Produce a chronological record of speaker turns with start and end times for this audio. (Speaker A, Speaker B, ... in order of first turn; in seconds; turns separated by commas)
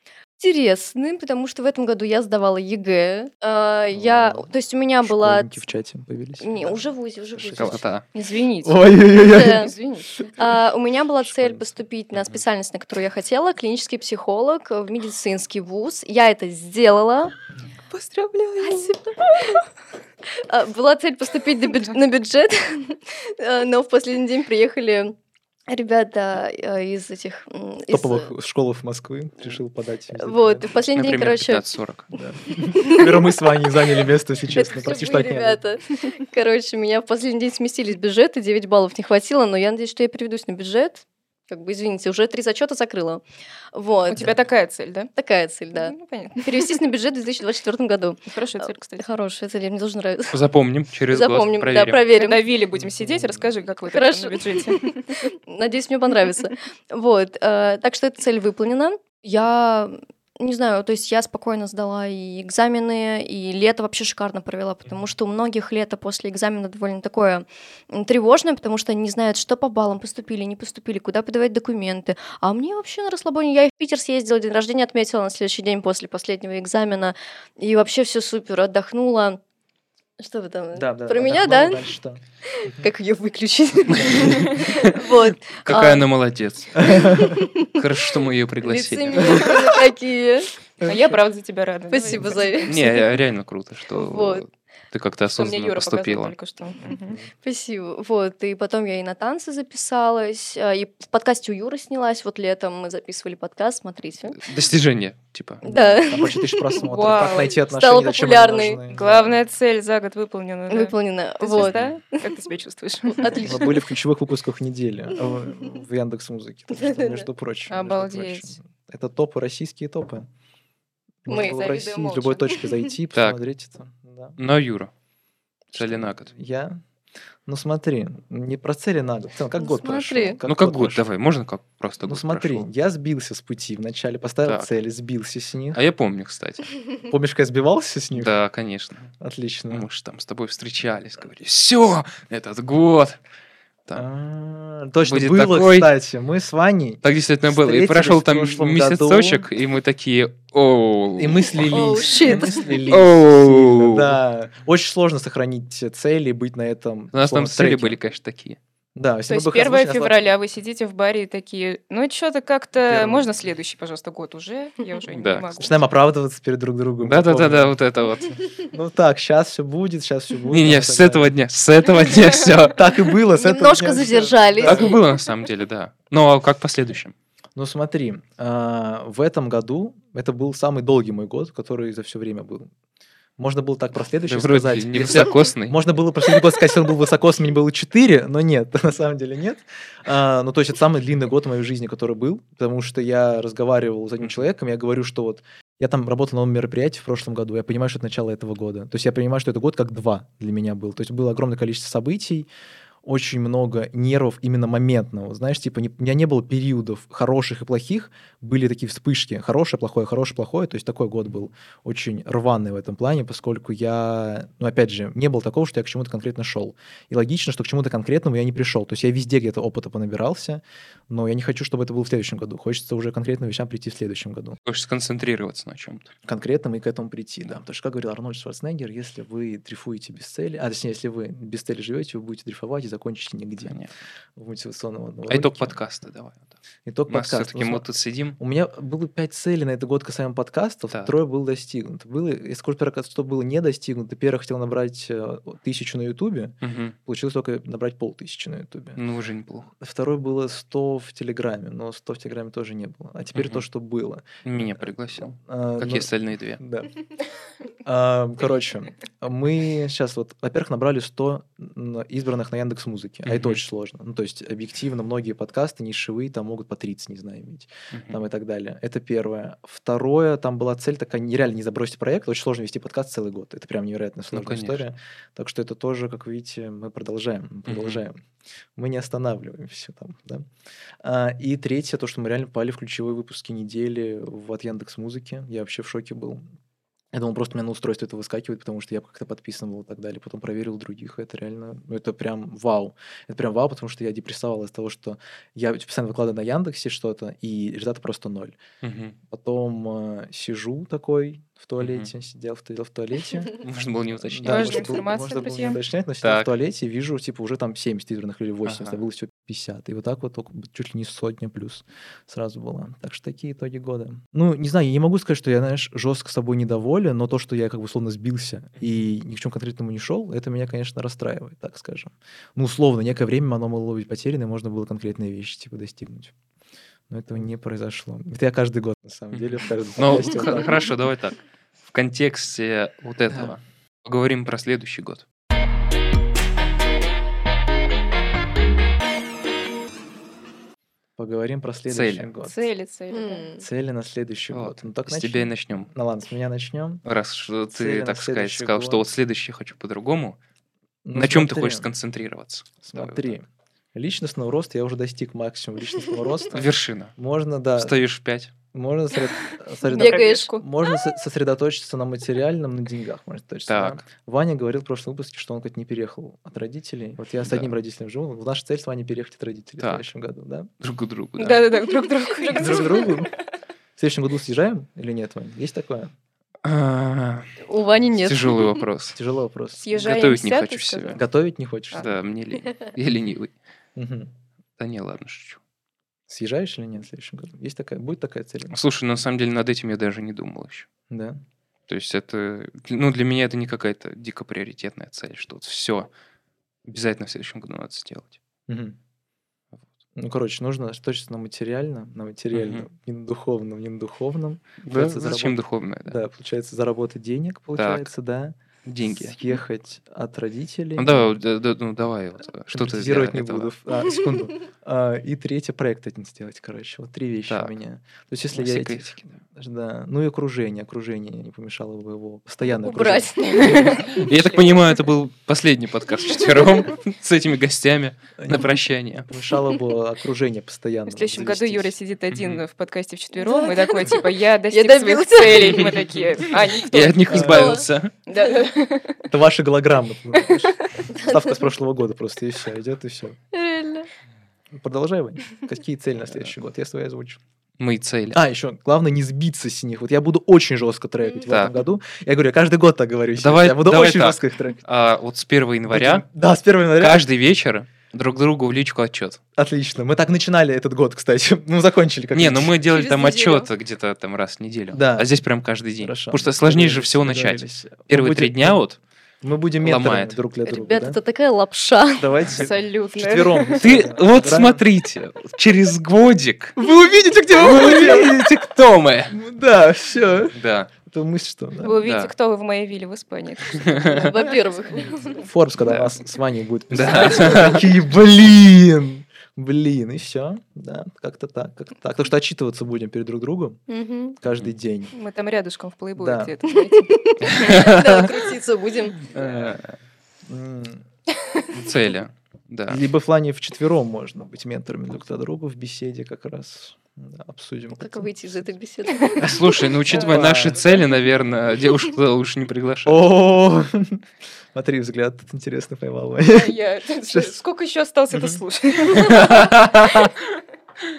Speaker A: 0.4-5.6, Speaker B: 3.9-4.5, Speaker B: 5.0-7.8, Speaker A: 6.4-7.8, Speaker C: 7.5-8.0, Speaker D: 8.1-10.1, Speaker B: 8.6-9.7, Speaker A: 9.1-9.7, Speaker A: 10.3-17.3, Speaker B: 11.2-11.7, Speaker D: 17.9-18.9, Speaker A: 18.6-19.6, Speaker A: 20.3-25.1, Speaker A: 25.7-28.3, Speaker B: 27.9-30.7, Speaker A: 30.1-31.6, Speaker C: 30.9-32.1, Speaker B: 32.1-35.6, Speaker A: 32.5-33.4, Speaker A: 34.5-43.2, Speaker A: 43.7-44.3, Speaker D: 44.1-45.1, Speaker A: 45.1-50.4, Speaker D: 45.7-46.8, Speaker D: 48.3-49.0, Speaker C: 50.3-52.0, Speaker A: 51.1-52.4, Speaker D: 52.1-55.1, Speaker B: 52.7-53.5, Speaker A: 53.9-79.4, Speaker A: 80.2-81.8, Speaker B: 80.7-82.2, Speaker A: 82.6-86.1, Speaker C: 84.0-85.0, Speaker C: 85.6-89.6, Speaker B: 86.7-87.5, Speaker A: 86.9-87.8, Speaker A: 88.6-90.5, Speaker B: 89.2-89.6, Speaker B: 90.8-91.2, Speaker D: 90.8-92.8, Speaker A: 91.9-93.1, Speaker C: 92.7-96.3, Speaker A: 93.9-94.4, Speaker D: 95.3-97.2, Speaker A: 97.4-104.4, Speaker C: 104.3-105.6, Speaker A: 105.6-108.8, Speaker B: 105.6-109.4, Speaker D: 106.7-107.6, Speaker D: 108.9-113.5, Speaker A: 110.7-111.8, Speaker C: 111.6-112.0, Speaker A: 113.1-113.9, Speaker B: 113.4-120.3, Speaker A: 116.7-117.2, Speaker D: 117.7-118.5, Speaker B: 121.2-124.4, Speaker A: 121.3-121.8, Speaker D: 121.3-122.7, Speaker C: 123.1-123.4, Speaker C: 124.4-124.9, Speaker C: 125.7-126.3, Speaker B: 125.7-126.8, Speaker B: 127.5-131.1, Speaker A: 129.6-130.4, Speaker C: 130.5-132.7, Speaker B: 132.0-135.8, Speaker C: 134.4-134.7, Speaker C: 135.7-136.7, Speaker B: 137.1-138.3, Speaker C: 138.1-139.1, Speaker B: 139.2-139.8, Speaker C: 139.7-143.2, Speaker B: 143.9-149.4, Speaker C: 145.0-145.9, Speaker C: 147.0-154.2, Speaker B: 151.2-158.0, Speaker A: 151.7-152.8, Speaker C: 157.1-158.6, Speaker B: 158.9-160.3, Speaker D: 159.3-165.7, Speaker B: 162.8-163.3, Speaker C: 165.1-165.7, Speaker B: 165.6-167.8, Speaker C: 167.0-168.4, Speaker B: 168.7-171.3, Speaker C: 170.5-173.1, Speaker B: 172.6-174.9, Speaker A: 173.3-175.0, Speaker C: 174.6-177.1, Speaker B: 177.6-182.7, Speaker B: 183.4-202.5, Speaker C: 184.2-185.8, Speaker B: 203.0-224.6, Speaker C: 224.6-226.1, Speaker B: 226.2-233.8, Speaker C: 233.6-233.9, Speaker B: 234.3-235.8, Speaker C: 235.3-236.5, Speaker B: 236.8-237.9, Speaker C: 237.1-238.4, Speaker B: 238.4-249.0, Speaker C: 246.6-246.9, Speaker C: 248.9-249.7, Speaker B: 249.7-256.9, Speaker C: 253.3-253.6, Speaker C: 254.4-256.6, Speaker B: 257.8-278.2, Speaker C: 263.2-263.6, Speaker C: 267.9-268.2, Speaker C: 274.3-274.8, Speaker C: 277.7-278.0, Speaker B: 278.8-280.5, Speaker B: 281.0-286.4, Speaker B: 287.1-298.6, Speaker C: 298.8-299.1, Speaker B: 299.3-303.6, Speaker C: 301.8-302.1, Speaker C: 303.6-304.9, Speaker B: 304.2-326.3, Speaker D: 304.4-305.8, Speaker C: 306.2-306.5, Speaker C: 308.6-309.0, Speaker B: 327.1-330.8, Speaker C: 329.3-335.2, Speaker B: 333.3-333.6, Speaker B: 341.2-342.6, Speaker C: 341.9-342.3, Speaker D: 342.4-343.5, Speaker A: 343.1-343.6, Speaker B: 343.6-347.0, Speaker C: 344.5-345.9, Speaker C: 347.0-350.4, Speaker B: 347.7-349.1, Speaker B: 351.0-351.9, Speaker C: 351.1-353.4, Speaker B: 352.9-358.0, Speaker C: 356.5-357.1, Speaker C: 357.8-358.5, Speaker B: 358.7-370.7, Speaker D: 359.8-360.6, Speaker A: 359.9-360.5, Speaker C: 363.7-364.0, Speaker C: 367.4-367.7, Speaker C: 369.8-370.1, Speaker C: 370.8-371.6, Speaker D: 371.4-373.3, Speaker A: 372.3-373.1, Speaker B: 372.5-373.3, Speaker B: 374.0-376.1, Speaker C: 376.6-377.6, Speaker A: 377.6-378.8, Speaker C: 378.2-379.2, Speaker B: 379.1-380.0, Speaker D: 379.8-381.2, Speaker C: 379.9-381.2, Speaker B: 381.1-382.1, Speaker C: 381.9-383.5, Speaker B: 383.9-384.3, Speaker C: 384.8-385.6, Speaker B: 386.3-388.8, Speaker C: 388.7-390.9, Speaker B: 391.1-391.4, Speaker C: 391.9-396.1, Speaker C: 396.9-398.4, Speaker B: 398.7-398.9, Speaker B: 400.1-411.3, Speaker C: 402.5-402.9, Speaker C: 404.8-406.2, Speaker C: 407.8-408.1, Speaker C: 408.8-409.4, Speaker C: 411.0-413.7, Speaker B: 412.7-424.0, Speaker C: 417.5-417.7, Speaker C: 418.5-419.3, Speaker A: 422.8-424.2, Speaker D: 423.5-424.9, Speaker C: 423.6-429.3, Speaker B: 428.4-431.9, Speaker D: 431.1-439.2, Speaker C: 432.3-432.6, Speaker A: 433.3-436.0, Speaker C: 436.8-438.1, Speaker B: 437.3-437.8, Speaker A: 437.5-437.8, Speaker B: 439.3-443.4, Speaker D: 440.3-440.8, Speaker A: 441.1-441.6, Speaker A: 443.5-444.1, Speaker B: 444.7-447.4, Speaker C: 447.8-448.4, Speaker B: 448.3-454.8, Speaker C: 451.5-451.8, Speaker C: 453.4-456.2, Speaker B: 455.9-457.2, Speaker C: 457.0-459.4, Speaker B: 459.6-462.7, Speaker C: 462.3-469.0, Speaker D: 462.9-463.5, Speaker A: 463.0-463.6, Speaker B: 464.9-465.3, Speaker B: 466.0-468.8, Speaker B: 469.4-471.2, Speaker C: 469.8-470.4, Speaker A: 470.6-472.3, Speaker B: 472.2-474.8, Speaker D: 472.5-474.0, Speaker C: 473.8-476.8, Speaker B: 476.8-478.6, Speaker C: 477.5-479.3, Speaker B: 479.3-482.0, Speaker C: 480.5-480.9, Speaker D: 481.8-484.6, Speaker C: 482.0-482.3, Speaker C: 483.7-484.3, Speaker A: 484.1-485.4, Speaker B: 485.3-493.8, Speaker C: 485.8-486.1, Speaker C: 486.9-487.9, Speaker D: 487.3-487.6, Speaker A: 493.9-494.4, Speaker B: 494.4-495.1, Speaker D: 495.1-497.9, Speaker B: 496.1-496.6, Speaker A: 496.8-499.3, Speaker C: 497.4-498.3, Speaker C: 499.3-499.9, Speaker B: 499.4-499.7, Speaker B: 500.4-501.0, Speaker C: 501.7-503.0, Speaker B: 502.9-508.7, Speaker A: 508.0-509.5, Speaker C: 509.4-513.3, Speaker B: 510.1-510.8, Speaker D: 510.1-511.1, Speaker B: 513.0-514.2, Speaker B: 514.7-517.6, Speaker D: 516.5-519.7, Speaker B: 518.3-518.6, Speaker C: 519.1-520.3, Speaker A: 519.4-519.7